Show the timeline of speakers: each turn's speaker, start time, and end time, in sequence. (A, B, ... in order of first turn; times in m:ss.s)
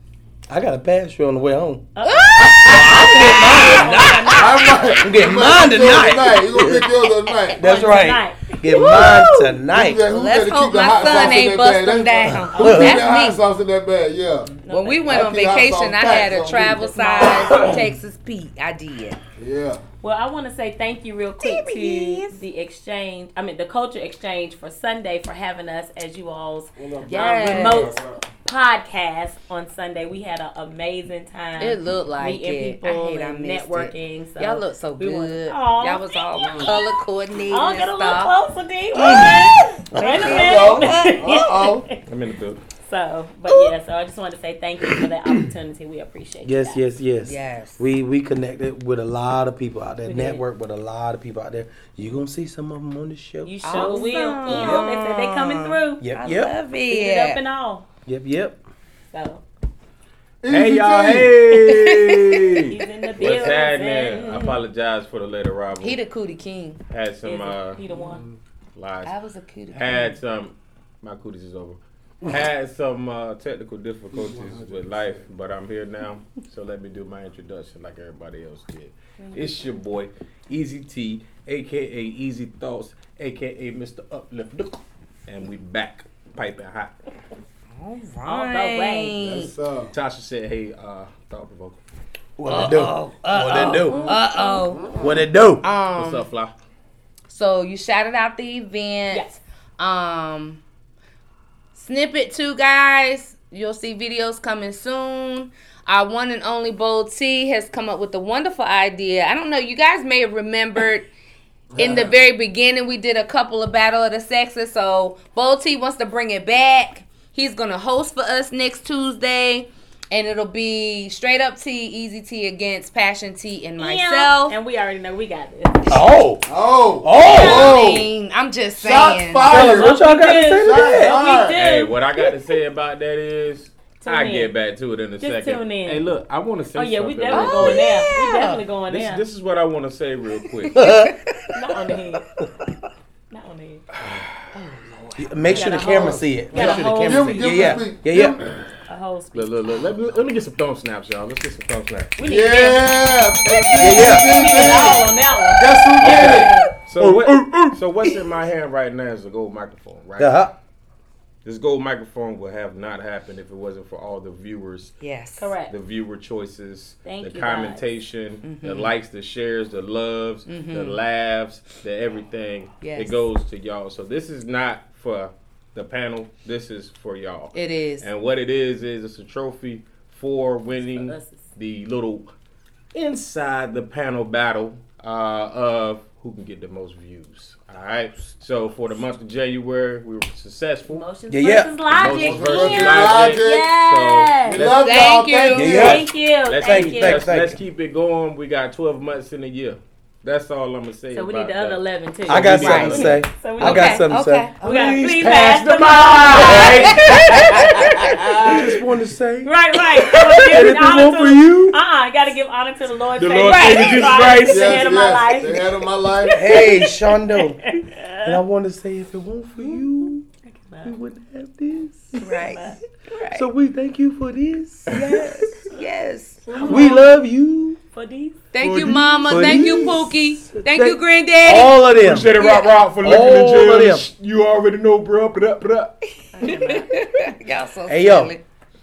0:00.5-0:01.9 A
0:01.9-0:05.0 B
0:02.0-0:04.5 C
0:02.4-0:06.8 A
0:04.4-0:07.6 D
0:07.6-0:08.9 B
0:07.6-0:10.0 A
0:08.6-0:09.5 C
0:08.9-0:17.7 D
0:10.1-0:13.4 C
0:12.3-0:13.0 B
0:12.5-0:13.1 A
0:14.5-0:15.3 B
0:14.7-0:19.2 C
0:16.6-0:17.8 B
0:19.4-0:19.8 D
0:20.0-0:36.9 B
0:21.4-0:22.4 C
0:26.8-0:28.2 D
0:27.0-0:27.9 C
0:31.6-0:38.3 C
0:36.5-0:36.7 D
0:37.5-0:42.0 B
0:39.0-0:41.4 C
0:40.0-0:40.2 A
0:40.0-0:41.9 D
0:42.0-0:42.6 E
0:42.8-0:46.8 B
0:46.4-0:54.9 A
0:47.2-0:47.8 C
0:50.0-0:50.4 B
0:53.4-0:56.0 B
0:53.6-0:57.4 C
0:56.0-0:56.5 A
0:56.9-0:57.8 B
0:58.0-0:58.6 A
0:59.1-0:59.4 B
1:00.4-1:01.4 D
1:00.5-1:06.0 E
1:01.6-1:02.2 C
1:02.6-1:04.6 B
1:05.8-1:06.8 C
1:06.9-1:07.8 E
1:07.2-1:08.2 B
1:07.9-1:08.4 D
1:08.7-1:09.2 E
1:09.0-1:10.1 C
1:09.7-1:27.0 E
1:14.1-1:15.3 D
1:19.2-1:19.5 B
1:27.7-1:29.5 C
1:28.2-1:29.2 B
1:29.2-1:29.9 D
1:29.9-1:31.8 E
1:32.4-1:34.2 A
1:32.5-1:36.3 C
1:33.5-1:34.9 B
1:34.6-1:35.2 D
1:35.0-1:35.7 A
1:35.9-1:36.5 E
1:37.3-1:40.6 C
1:39.1-1:39.4 B
1:41.7-1:51.1 C
1:51.7-1:52.2 D
1:51.8-2:04.6 C
2:03.8-2:06.2 B
2:05.9-2:06.5 A
2:06.4-2:08.1 D
2:07.0-2:07.8 A
2:07.1-2:07.8 B
2:07.3-2:09.6 C
2:08.7-2:10.0 D
2:09.4-2:11.2 A
2:09.5-2:12.0 B
2:10.6-2:11.6 D
2:11.5-2:17.9 E
2:14.0-2:14.5 B
2:15.2-2:16.0 B
2:16.7-2:19.2 B
2:17.3-2:18.6 C
2:18.9-2:20.8 E
2:20.7-2:21.2 C
2:20.7-2:21.2 A
2:21.5-2:22.2 B
2:22.4-2:22.7 A
2:23.3-2:23.8 B
2:24.5-2:25.8 C
2:25.2-2:28.6 A
2:25.5-2:27.8 B
2:25.8-2:28.6 D
2:28.9-2:29.5 B
2:29.3-2:32.2 E
2:32.2-2:36.6 D
2:32.2-2:36.7 B
2:33.8-2:34.5 A
2:36.0-2:40.4 E
2:36.0-2:36.4 A
2:37.0-2:37.8 A
2:40.2-2:40.6 A
2:41.4-2:45.0 E
2:45.0-2:45.5 C
2:45.4-2:45.7 B
2:45.7-3:02.3 E
2:47.0-2:47.8 B
2:48.4-2:48.9 C
2:50.5-2:51.0 C
2:52.8-2:53.2 C
2:57.5-2:58.1 C
3:00.8-3:01.5 B
3:02.9-3:11.0 E
3:10.9-3:14.7 B
3:11.3-3:11.7 A
3:11.9-3:14.4 E
3:12.0-3:13.7 D
3:14.4-3:16.0 D
3:14.5-3:16.0 C
3:15.5-3:17.6 A
3:15.6-3:17.3 B
3:16.5-3:23.3 E
3:21.1-3:24.1 B
3:22.3-3:24.5 A
3:22.5-3:23.1 C
3:23.6-3:24.6 C
3:24.6-3:28.1 B
3:24.6-3:28.6 E
3:26.4-3:28.5 C
3:28.3-3:28.6 D
3:28.4-3:29.5 A
3:29.4-3:38.4 B
3:30.1-3:31.8 A
3:33.2-3:34.9 E
3:33.4-3:34.4 C
3:34.4-3:36.5 D
3:36.3-3:40.2 A
3:40.4-3:41.0 B
3:40.8-3:42.2 A
3:42.1-3:42.8 B
3:42.2-3:43.5 C
3:43.3-3:45.6 A
3:44.9-3:46.7 C
3:46.5-3:47.1 B
3:46.6-3:47.8 A
3:47.9-3:48.4 B
3:48.5-3:52.9 C
3:48.6-3:50.0 E
3:48.8-3:52.3 A
3:51.5-3:56.0 E
3:53.0-3:54.0 A
3:56.3-3:57.0 B
3:56.4-3:58.4 C
3:57.9-3:58.3 A